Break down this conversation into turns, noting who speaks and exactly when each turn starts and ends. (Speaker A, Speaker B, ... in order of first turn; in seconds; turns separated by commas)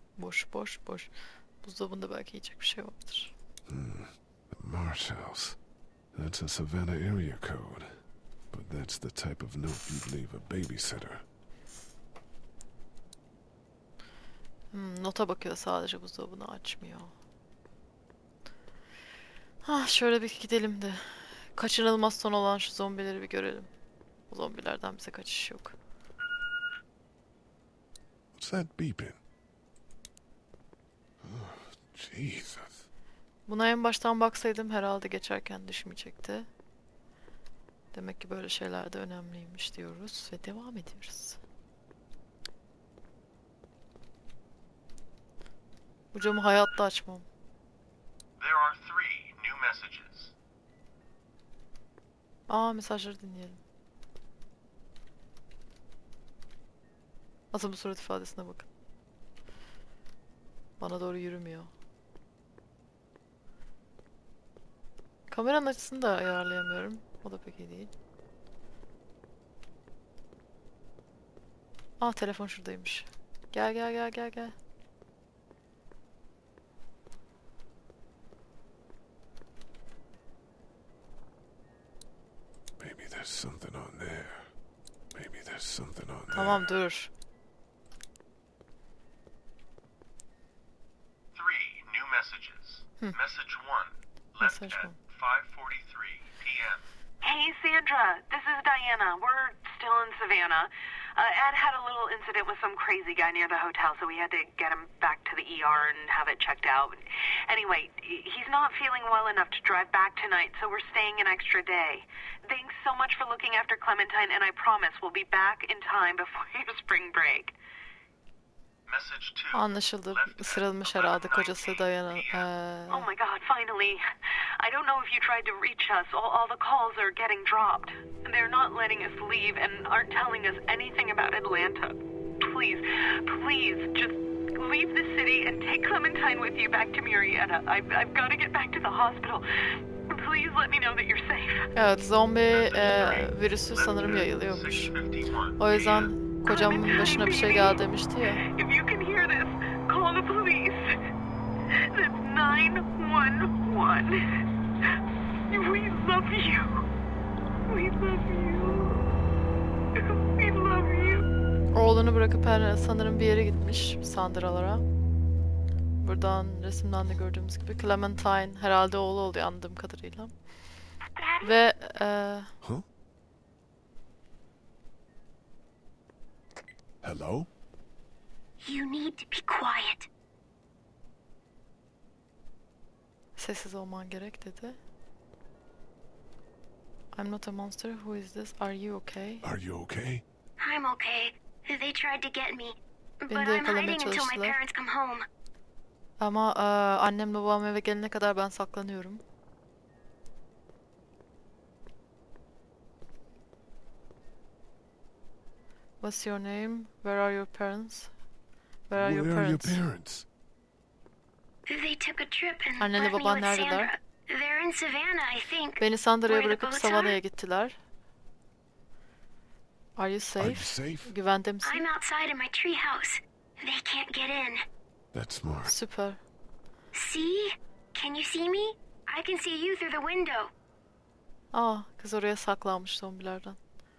Speaker A: 0.2-1.1, Speaker A: 1.6-3.3, Speaker B: 3.7-5.6, Speaker B: 6.2-8.0, Speaker B: 8.5-11.2, Speaker A: 14.7-17.1, Speaker A: 19.6-23.7, Speaker A: 24.3-25.8, Speaker B: 28.4-29.2, Speaker B: 31.2-32.8, Speaker A: 33.5-36.5, Speaker A: 37.9-41.4, Speaker A: 46.1-47.2, Speaker C: 48.4-50.3, Speaker A: 52.5-53.6, Speaker A: 57.5-58.7, Speaker A: 60.8-61.7, Speaker A: 65.3-67.9, Speaker A: 72.0-74.5, Speaker B: 82.8-84.5, Speaker B: 85.2-86.7, Speaker A: 86.3-87.1, Speaker C: 91.3-96.8, Speaker A: 94.4-95.0, Speaker D: 97.2-117.5, Speaker C: 118.9-122.5, Speaker A: 119.5-123.1, Speaker D: 122.9-124.0, Speaker D: 124.6-139.4, Speaker D: 140.1-141.7, Speaker A: 141.8-144.9, Speaker C: 142.5-146.3, Speaker A: 145.6-148.4, Speaker D: 146.4-147.8, Speaker D: 148.5-151.0, Speaker D: 151.7-154.2, Speaker D: 155.5-156.8, Speaker D: 157.7-159.1, Speaker D: 159.9-161.3, Speaker A: 161.7-164.8, Speaker A: 166.0-170.3, Speaker E: 171.2-171.5, Speaker A: 171.4-172.5, Speaker B: 177.0-177.5, Speaker E: 178.6-180.1, Speaker A: 183.4-184.8, Speaker A: 187.1-189.4, Speaker B: 189.4-190.2, Speaker E: 190.6-195.3, Speaker A: 193.3-194.6, Speaker A: 196.2-199.2, Speaker A: 206.0-208.1, Speaker A: 208.9-209.8, Speaker B: 208.9-210.3, Speaker E: 211.7-217.2, Speaker A: 212.8-213.9, Speaker A: 215.8-217.8, Speaker A: 220.0-221.9, Speaker B: 220.4-221.1, Speaker E: 221.6-224.6, Speaker B: 225.1-225.7, Speaker A: 225.7-226.2, Speaker E: 226.9-230.5, Speaker A: 231.5-233.6